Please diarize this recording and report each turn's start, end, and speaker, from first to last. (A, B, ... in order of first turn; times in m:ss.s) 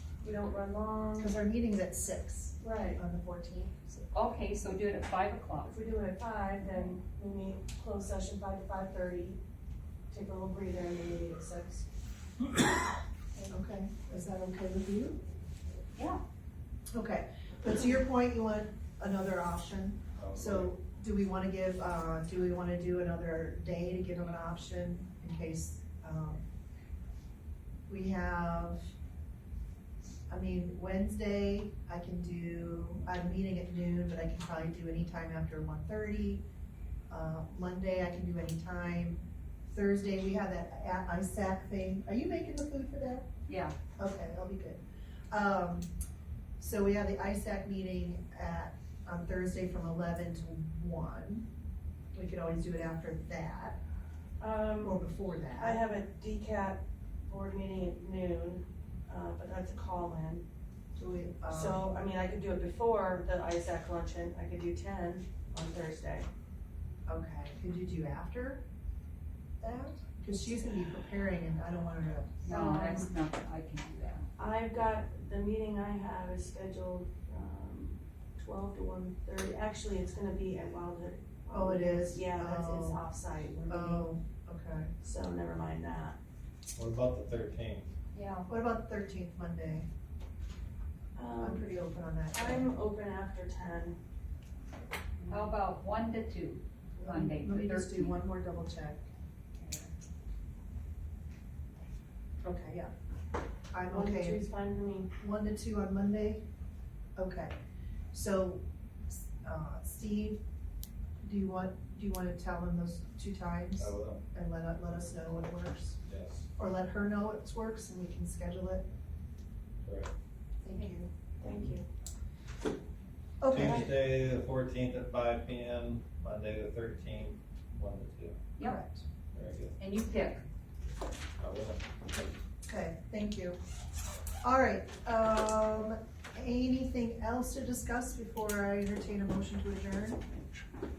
0:00.2-0:01.3 A
0:01.2-0:04.1 B
0:02.6-0:03.0 A
0:04.1-0:05.7 C
0:05.6-0:09.4 A
0:10.1-0:11.8 A
0:13.5-0:15.2 B
0:16.0-0:16.2 C
0:16.9-0:26.4 B
0:20.2-0:20.7 D
0:27.9-0:28.9 B
0:30.3-0:36.4 B
0:37.1-0:43.3 B
0:43.5-0:43.7 C
0:44.0-0:45.9 B
0:46.6-0:51.4 B
0:52.1-0:53.8 B
0:54.4-0:55.0 A
0:54.8-0:55.8 B
0:55.5-1:00.4 A
1:01.0-1:01.8 B
1:01.5-1:06.3 A
1:07.1-1:08.6 B
1:09.6-1:12.4 B
1:12.4-1:14.2 C
1:12.4-1:13.1 A
1:14.4-1:24.1 A
1:21.5-1:23.0 B
1:23.7-1:24.9 B
1:25.0-1:26.2 A
1:26.7-1:27.9 D
1:28.1-1:28.5 C
1:28.5-1:29.9 B
1:31.1-1:34.0 A
1:31.4-1:32.7 B
1:35.3-1:38.2 C
1:37.0-1:39.0 B
1:39.6-1:39.9 B
1:42.4-1:42.9 B
1:43.7-1:44.4 B
1:43.9-1:45.1 A
1:45.2-1:46.4 B
1:47.2-1:47.5 B
1:48.1-1:50.4 B
1:51.2-1:56.0 B
1:53.8-1:54.2 D
1:56.0-1:56.4 D
1:56.6-1:58.8 B
1:59.8-2:00.1 D
2:00.6-2:01.1 B
2:01.4-2:01.8 A
2:03.4-2:03.9 B
2:03.5-2:08.4 D
2:08.6-2:09.0 B
2:09.3-2:09.8 D
2:09.8-2:10.4 C
2:11.4-2:12.3 D
2:12.6-2:13.6 B
2:14.4-2:20.2 B